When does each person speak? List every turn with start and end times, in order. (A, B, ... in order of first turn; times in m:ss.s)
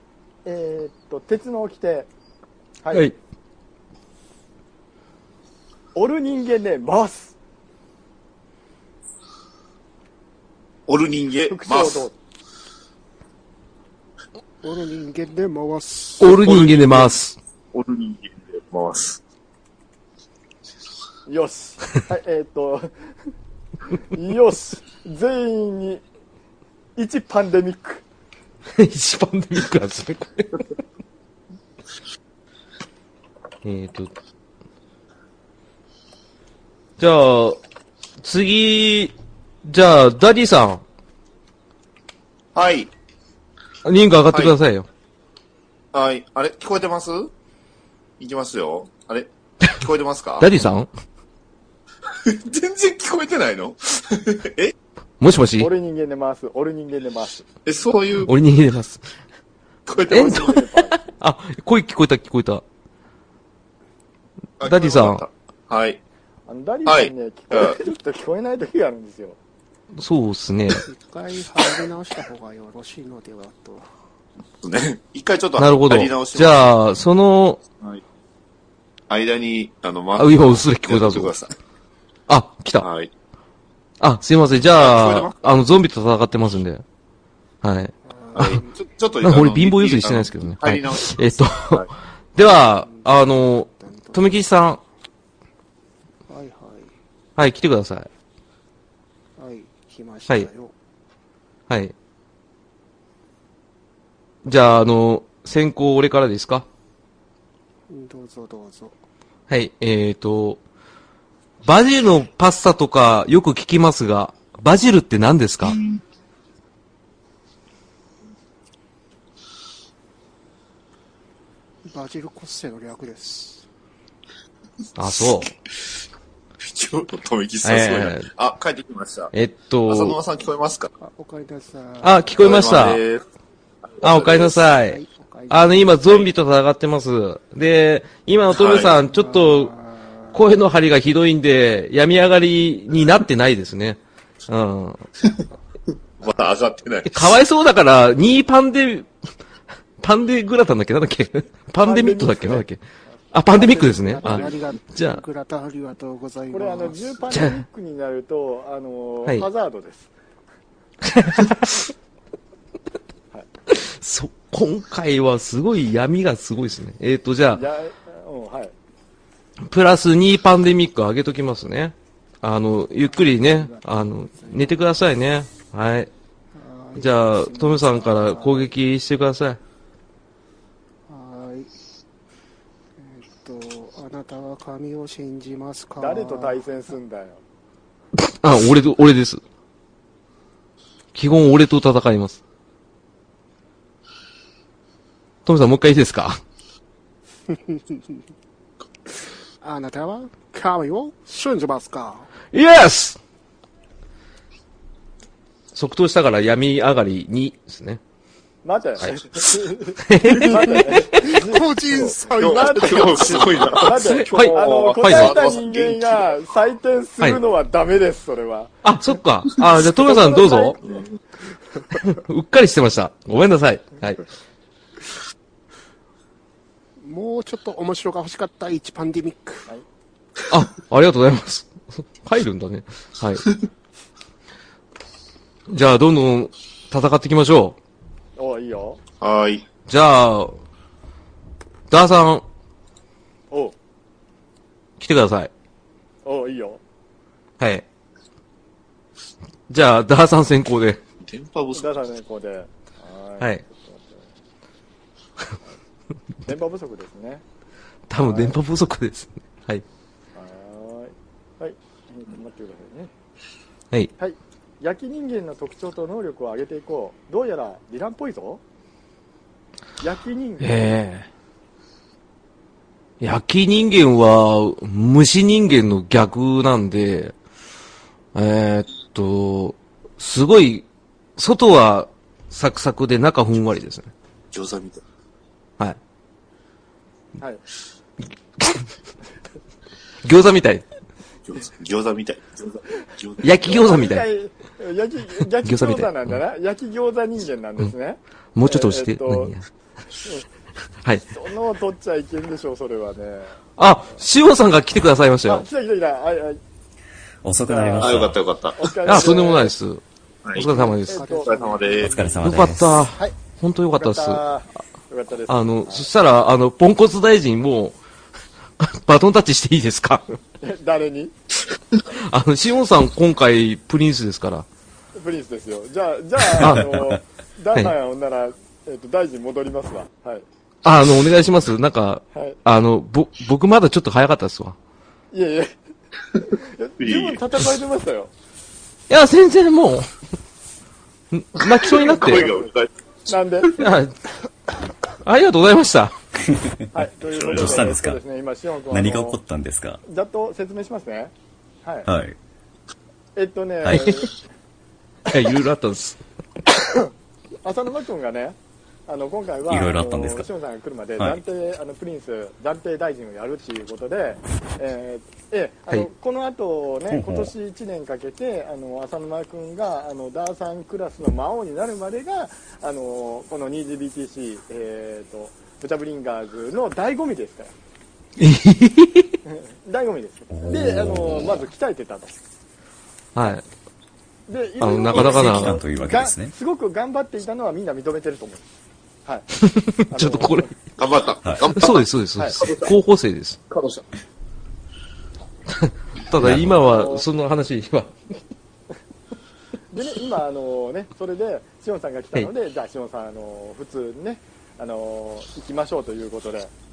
0:00.4-0:02.1 A
0:02.8-0:03.1 A
0:06.0-0:07.3 A
0:10.9-0:12.0 B
0:11.5-0:12.1 A
0:14.6-0:16.5 C
0:16.2-0:17.4 D
0:16.4-0:17.1 B
0:17.7-0:19.2 B
0:21.3-0:22.9 A
0:24.1-0:26.0 A
0:27.0-0:28.0 A
0:28.8-0:30.6 D
0:33.6-0:34.1 D
0:37.0-0:37.6 D
0:38.2-0:39.1 D
0:39.6-0:40.8 D
0:42.6-0:42.9 B
0:43.8-0:44.9 D
0:45.9-0:47.3 B
0:48.2-0:50.5 B
0:50.4-0:50.9 D
0:52.2-0:54.7 B
0:55.2-0:55.7 D
0:55.6-0:57.5 A
0:57.6-0:58.3 B
0:58.2-0:59.0 D
0:59.9-1:00.6 B
1:00.1-1:01.0 A
1:00.1-1:02.6 D
1:04.6-1:06.0 B
1:04.6-1:05.2 D
1:06.5-1:09.4 A
1:06.9-1:07.8 B
1:10.0-1:10.8 D
1:10.8-1:13.9 C
1:14.6-1:16.7 B
1:15.6-1:17.6 D
1:19.1-1:21.5 B
1:20.2-1:21.3 D
1:22.3-1:22.9 D
1:22.8-1:23.1 B
1:24.0-1:26.8 D
1:24.8-1:25.4 B
1:27.6-1:28.6 D
1:28.1-1:28.8 C
1:28.4-1:31.9 B
1:29.2-1:34.8 D
1:32.8-1:34.4 C
1:36.3-1:36.9 C
1:37.4-1:38.1 D
1:39.4-1:40.7 C
1:44.4-1:46.6 D
1:47.9-1:49.0 C
1:49.5-1:50.6 D
1:51.6-1:55.8 D
2:01.8-2:03.6 C
2:05.0-2:05.5 D
2:06.6-2:09.3 B
2:07.6-2:08.3 D
2:09.3-2:10.2 D
2:09.9-2:10.9 B
2:11.0-2:12.6 C
2:12.0-2:13.0 D
2:12.4-2:13.2 B
2:14.0-2:14.7 B
2:14.0-2:19.7 D
2:14.8-2:15.9 C
2:18.5-2:19.0 B
2:19.0-2:20.4 C
2:20.3-2:25.0 D
2:26.2-2:27.3 B
2:27.1-2:29.1 D
2:30.0-2:32.8 D
2:31.8-2:32.6 A
2:33.3-2:35.2 D
2:33.5-2:34.5 A
2:33.6-2:37.1 C
2:36.5-2:40.1 A
2:37.3-2:37.6 D
2:41.0-2:41.9 D
2:43.7-2:47.6 D
2:47.5-2:48.7 A
2:49.7-2:56.1 D
2:53.2-2:53.8 C
2:54.3-2:54.8 C
2:56.5-2:58.7 C
2:57.0-2:59.6 D
3:01.1-3:01.7 C
3:03.0-3:06.6 C
3:06.0-3:07.4 A
3:08.2-3:09.4 D
3:11.2-3:12.4 D
3:15.5-3:16.4 D
3:17.5-3:18.2 C
3:19.6-3:22.3 C
3:22.5-3:23.2 D
3:25.7-3:28.0 D
3:28.6-3:38.8 A
3:30.1-3:30.8 D
3:30.4-3:33.8 C
3:32.4-3:36.3 B
3:34.0-3:35.4 D
3:38.8-3:40.8 D
3:40.0-3:41.0 A
3:42.0-3:44.2 D
3:47.0-3:49.7 C
3:50.5-3:53.5 D
3:55.7-3:57.8 D
3:58.4-3:59.0 A
3:59.2-3:59.6 B
3:59.9-4:00.6 D
4:01.9-4:02.4 D
4:05.0-4:05.5 D
4:06.2-4:06.8 A
4:09.7-4:11.0 D
4:11.2-4:11.9 B
4:11.7-4:14.3 A
4:16.4-4:17.4 A
4:18.1-4:19.8 D
4:18.2-4:18.6 A
4:20.4-4:23.1 A
4:24.2-4:28.6 A
4:30.0-4:31.0 A
4:30.6-4:31.3 D
4:33.2-4:37.3 D
4:38.3-4:40.8 D
4:41.4-4:44.1 D
4:44.5-4:45.0 B
4:48.6-4:48.8 D
4:50.2-4:50.8 D
4:51.5-4:54.0 B
4:53.4-4:54.2 D
4:53.7-4:59.6 A
4:55.6-4:56.3 D
4:58.6-4:59.6 D
5:01.3-5:03.6 A
5:03.8-5:05.6 D
5:05.5-5:06.6 A
5:07.4-5:08.4 E
5:07.7-5:09.7 A
5:08.0-5:09.4 B
5:09.1-5:10.0 D
5:10.4-5:10.7 B
5:10.5-5:11.3 D
5:10.7-5:12.0 A
5:10.8-5:12.4 C
5:11.4-5:12.2 B
5:12.1-5:13.1 E
5:12.4-5:14.4 D
5:14.0-5:16.1 A
5:15.5-5:18.0 D
5:18.8-5:20.4 D
5:20.6-5:21.4 A
5:22.2-5:24.7 D
5:25.2-5:30.4 A
5:26.6-5:27.1 D
5:30.8-5:34.8 D
5:35.3-5:35.7 A
5:36.5-5:38.3 A
5:37.0-5:37.4 B
5:39.1-5:40.1 D
5:41.3-5:42.5 D
5:41.6-5:42.9 B
5:41.9-5:42.7 A
5:43.3-5:43.8 A
5:43.7-5:44.2 D
5:45.2-5:46.1 D
5:46.5-5:46.8 E
5:46.9-5:49.4 A
5:47.4-5:48.2 E
5:47.4-5:47.8 B
5:48.9-5:50.0 E
5:50.0-5:51.3 A
5:51.8-5:52.1 A
5:52.1-5:52.4 E
5:53.4-5:54.3 A
5:53.8-5:54.2 E
5:55.3-5:56.2 D
5:57.6-5:58.6 A
5:59.1-6:17.7 A
5:59.7-6:00.5 E
6:07.1-6:07.5 E
6:18.4-6:19.3 D
6:19.4-6:22.4 A
6:20.5-6:21.6 E
6:23.4-6:23.6 D
6:24.5-6:28.6 A
6:24.8-6:25.8 D
6:25.1-6:26.5 E
6:29.6-6:30.7 D
6:30.1-6:30.7 A
6:31.0-6:32.1 B
6:31.7-6:33.6 D
6:32.6-6:32.9 B
6:33.7-6:34.0 B
6:35.8-6:38.1 D
6:36.4-6:36.8 E
6:36.8-6:37.3 A
6:39.9-6:46.7 A